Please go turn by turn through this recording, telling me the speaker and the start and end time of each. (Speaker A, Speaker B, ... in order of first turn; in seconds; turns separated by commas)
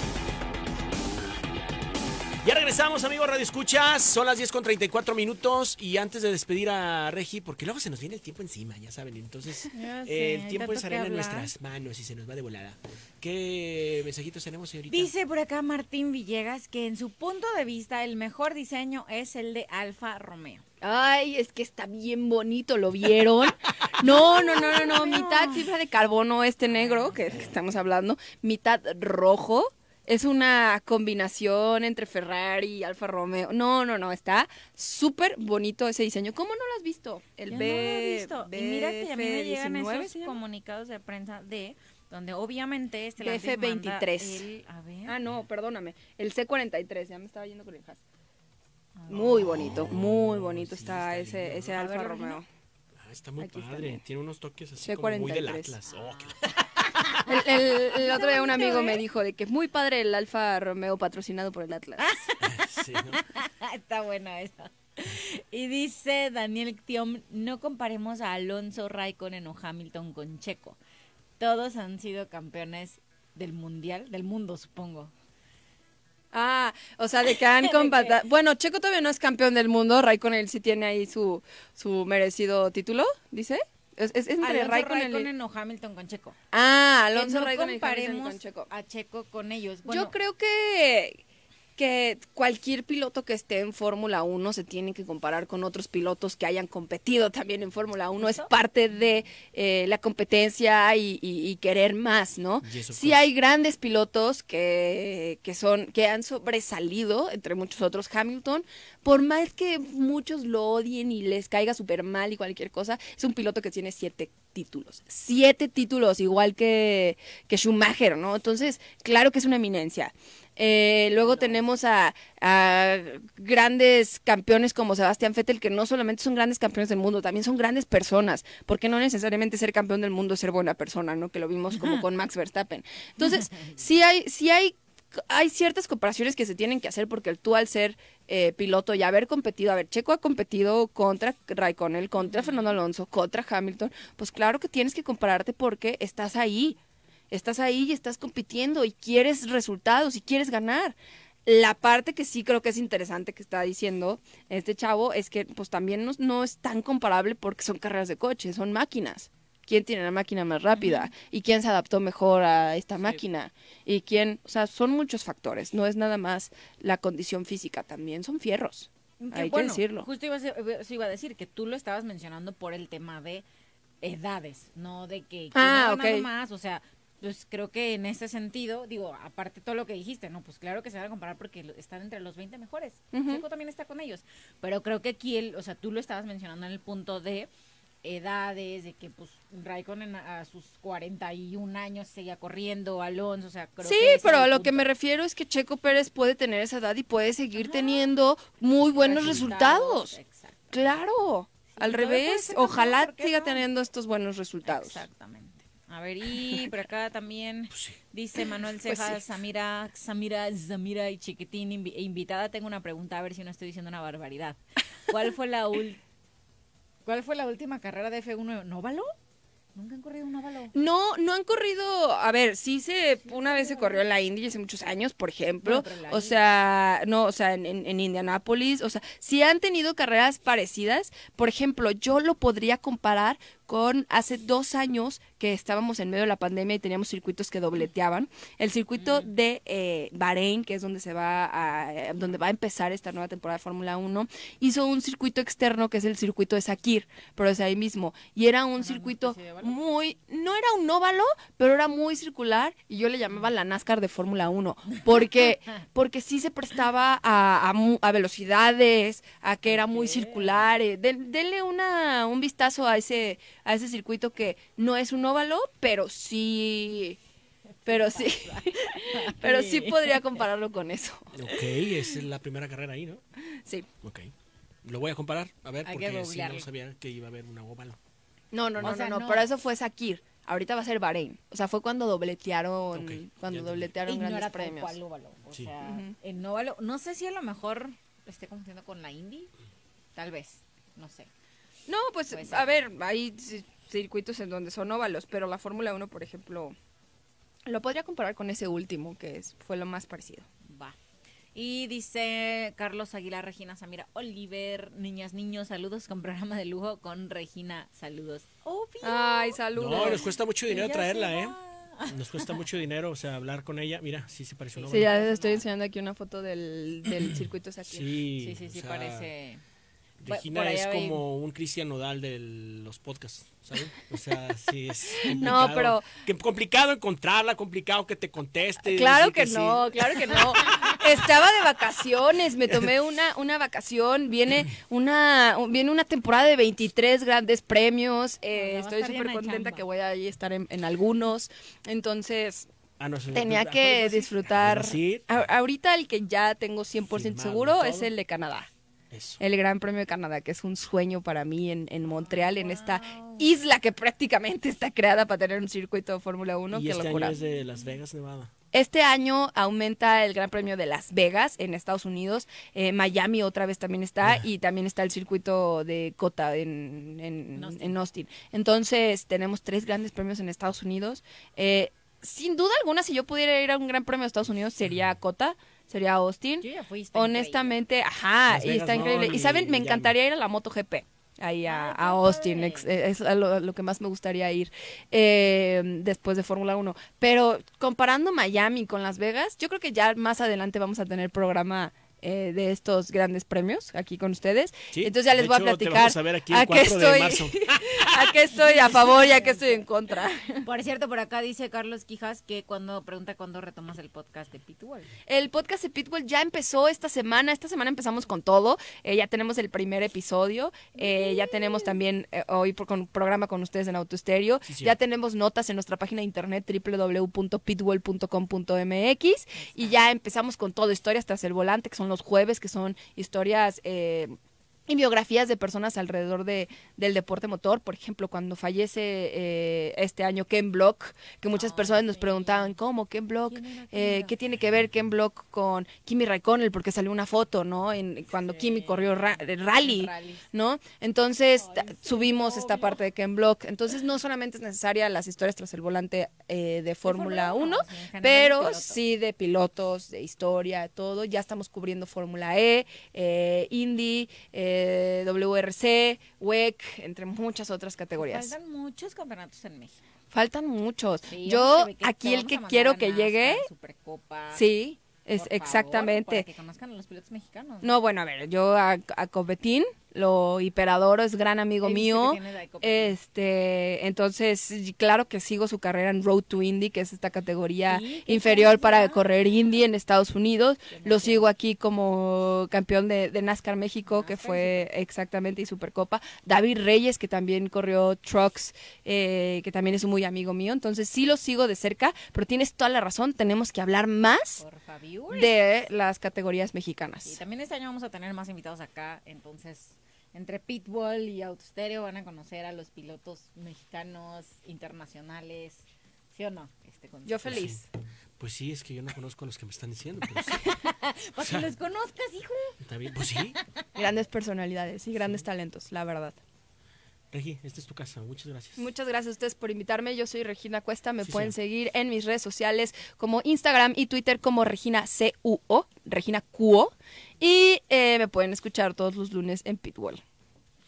Speaker A: 2.4-15.1, Speaker B: 9.7-11.5, Speaker B: 14.9-20.6, Speaker C: 20.8-40.4, Speaker B: 24.0-25.7, Speaker B: 26.6-27.3, Speaker B: 37.5-45.1, Speaker C: 43.2-44.5, Speaker C: 45.1-48.0, Speaker B: 49.0-49.6, Speaker C: 49.1-52.5, Speaker A: 49.4-51.8, Speaker B: 51.7-52.4, Speaker A: 53.0-57.2, Speaker C: 53.4-54.0, Speaker C: 54.8-55.8, Speaker C: 57.3-62.2, Speaker B: 58.0-59.0, Speaker B: 62.0-70.8, Speaker A: 62.4-63.2, Speaker B: 71.4-75.1, Speaker C: 76.3-85.3, Speaker B: 77.6-78.2, Speaker B: 84.4-86.4, Speaker C: 86.5-88.7, Speaker B: 87.1-90.1, Speaker C: 89.9-91.2, Speaker C: 91.8-146.8, Speaker B: 98.2-98.5, Speaker A: 102.6-103.3, Speaker B: 121.2-121.7, Speaker B: 131.8-132.0, Speaker B: 133.2-133.7, Speaker B: 142.2-142.8, Speaker C: 147.3-170.1, Speaker B: 160.8-161.1, Speaker B: 169.2-173.4, Speaker B: 174.0-187.5, Speaker C: 175.5-176.3, Speaker C: 183.1-183.4, Speaker B: 188.0-194.9, Speaker C: 193.8-200.2, Speaker B: 197.6-198.2, Speaker B: 199.0-200.8, Speaker A: 199.2-199.5, Speaker C: 200.7-205.0, Speaker B: 201.7-203.6, Speaker B: 204.7-216.0, Speaker A: 207.7-208.0, Speaker C: 208.9-209.2, Speaker B: 217.1-219.1, Speaker B: 219.8-220.7, Speaker C: 220.7-267.2, Speaker B: 223.2-224.1, Speaker B: 225.6-226.4, Speaker B: 239.0-239.3, Speaker B: 248.8-249.8, Speaker B: 259.7-260.7, Speaker B: 267.9-270.2, Speaker C: 267.9-271.3, Speaker A: 271.3-273.2, Speaker A: 274.0-274.3, Speaker A: 274.9-278.0, Speaker B: 275.9-276.7, Speaker C: 278.5-285.0, Speaker B: 278.8-279.5, Speaker A: 282.9-283.9, Speaker B: 284.1-289.5, Speaker C: 285.8-286.1, Speaker B: 290.2-291.3, Speaker C: 291.9-296.8, Speaker B: 292.3-292.7, Speaker C: 297.7-300.5, Speaker B: 300.6-301.0, Speaker B: 301.6-312.6, Speaker C: 309.0-310.3, Speaker A: 309.8-315.2, Speaker B: 314.8-315.6, Speaker C: 314.9-318.0, Speaker A: 317.3-319.3, Speaker B: 318.4-319.6, Speaker A: 320.2-330.4, Speaker B: 320.3-321.2, Speaker C: 325.3-326.0, Speaker C: 328.9-342.7, Speaker B: 338.5-339.8, Speaker A: 343.0-345.3, Speaker C: 343.3-348.7, Speaker A: 347.1-348.1, Speaker A: 349.1-349.4, Speaker C: 349.4-357.4, Speaker B: 352.1-353.5, Speaker A: 356.7-358.5, Speaker B: 357.4-357.9, Speaker C: 358.7-400.6, Speaker B: 367.6-368.0, Speaker B: 376.6-377.8, Speaker A: 378.5-380.1, Speaker B: 381.7-382.9, Speaker A: 394.9-398.3, Speaker B: 398.5-399.8, Speaker B: 400.6-405.1, Speaker C: 405.3-424.4, Speaker B: 411.0-411.6, Speaker A: 414.7-415.0, Speaker B: 419.5-420.0, Speaker C: 424.9-458.5, Speaker B: 431.5-432.8, Speaker B: 433.5-434.3, Speaker B: 438.3-440.5, Speaker B: 441.6-443.0, Speaker B: 447.1-449.0, Speaker B: 458.1-460.0, Speaker C: 460.3-463.7, Speaker B: 461.3-464.6, Speaker C: 464.5-466.5, Speaker B: 465.4-467.9, Speaker C: 467.8-494.6, Speaker B: 471.8-473.1, Speaker B: 477.9-479.2, Speaker B: 480.9-481.5, Speaker B: 484.1-484.9, Speaker B: 494.6-495.5, Speaker C: 495.3-497.4, Speaker B: 497.2-507.7, Speaker C: 507.2-507.8, Speaker A: 507.4-507.8, Speaker A: 508.4-510.6, Speaker B: 510.5-512.7, Speaker A: 511.4-511.7, Speaker A: 512.8-513.6, Speaker C: 514.0-516.4, Speaker A: 517.3-518.9, Speaker C: 518.8-530.2, Speaker A: 521.2-521.6